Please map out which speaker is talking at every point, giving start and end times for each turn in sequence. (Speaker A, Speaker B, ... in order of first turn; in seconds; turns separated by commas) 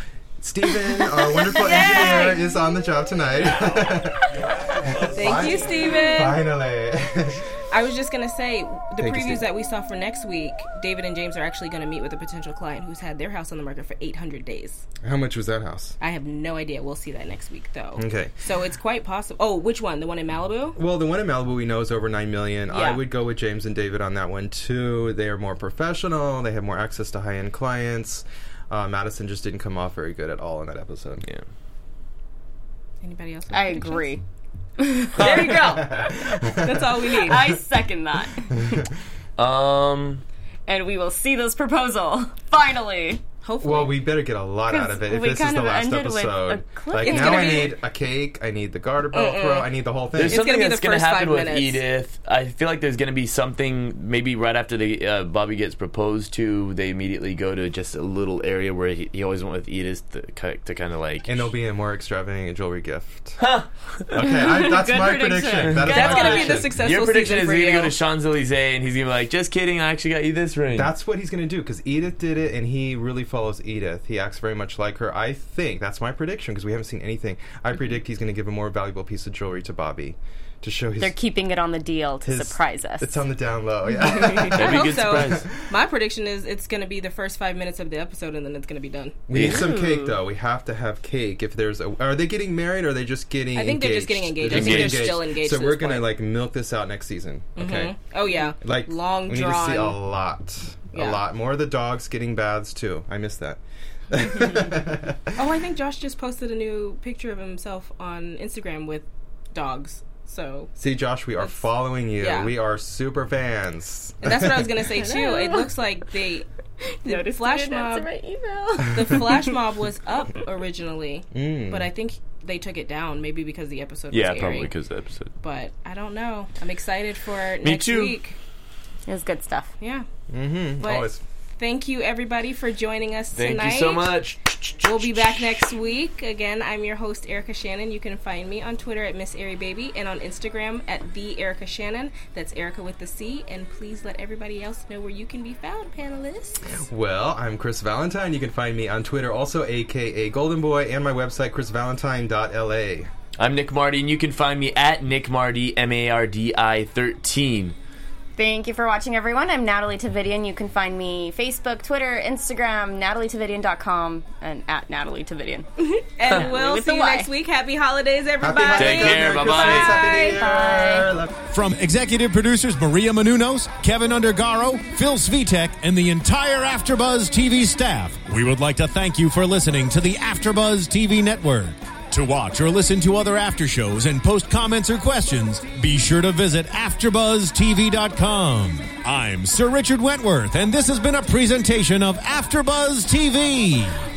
Speaker A: 0.4-7.4, Speaker B: 0.9-2.5, Speaker B: 5.1-6.4, Speaker B: 7.7-14.8, Speaker A: 9.0-9.4, Speaker A: 15.0-15.9, Speaker B: 16.0-20.8, Speaker A: 18.0-18.3, Speaker A: 20.8-31.2, Speaker B: 22.7-23.0, Speaker B: 33.0-34.1, Speaker C: 33.5-34.2, Speaker C: 34.8-35.8, Speaker B: 35.2-37.5, Speaker D: 35.2-35.6, Speaker A: 35.5-37.6, Speaker C: 37.1-38.8, Speaker A: 38.5-38.9, Speaker D: 39.4-40.2, Speaker C: 40.7-43.2, Speaker B: 43.4-44.0, Speaker A: 43.6-50.4, Speaker C: 44.7-47.7, Speaker B: 47.0-47.8, Speaker B: 49.1-49.7, Speaker D: 50.1-61.5, Speaker B: 50.3-51.8, Speaker A: 61.2-63.4, Speaker D: 63.4-64.1, Speaker A: 64.1-66.7, Speaker C: 64.2-66.6, Speaker B: 65.9-67.9, Speaker D: 66.6-70.9, Speaker A: 70.7-81.2, Speaker C: 81.0-83.2, Speaker A: 82.2-85.5, Speaker C: 83.9-84.7, Speaker D: 84.4-85.5, Speaker B: 84.6-89.2, Speaker A: 89.3-98.0, Speaker D: 89.3-89.7, Speaker C: 89.3-90.2, Speaker B: 93.5-96.1, Speaker D: 94.5-95.2, Speaker B: 97.5-100.0, Speaker A: 98.5-105.3, Speaker B: 100.9-101.2, Speaker B: 105.3-110.7, Speaker A: 110.8-114.8, Speaker B: 112.2-112.5, Speaker B: 114.2-116.5, Speaker C: 115.0-115.7, Speaker C: 117.0-119.3, Speaker B: 117.0-118.1, Speaker B: 118.9-124.7, Speaker A: 121.3-121.9, Speaker D: 124.1-125.3, Speaker B: 125.4-128.4, Speaker D: 127.6-128.2, Speaker C: 129.1-129.7, Speaker B: 129.8-130.1, Speaker A: 130.3-131.2, Speaker B: 130.8-134.2, Speaker D: 133.4-135.3, Speaker B: 134.8-146.8, Speaker A: 146.8-153.1, Speaker D: 153.4-157.7, Speaker C: 158.4-165.7, Speaker B: 165.8-170.4, Speaker C: 166.3-167.3, Speaker A: 168.4-171.4, Speaker D: 168.7-169.9, Speaker C: 170.1-171.1, Speaker E: 171.5-194.0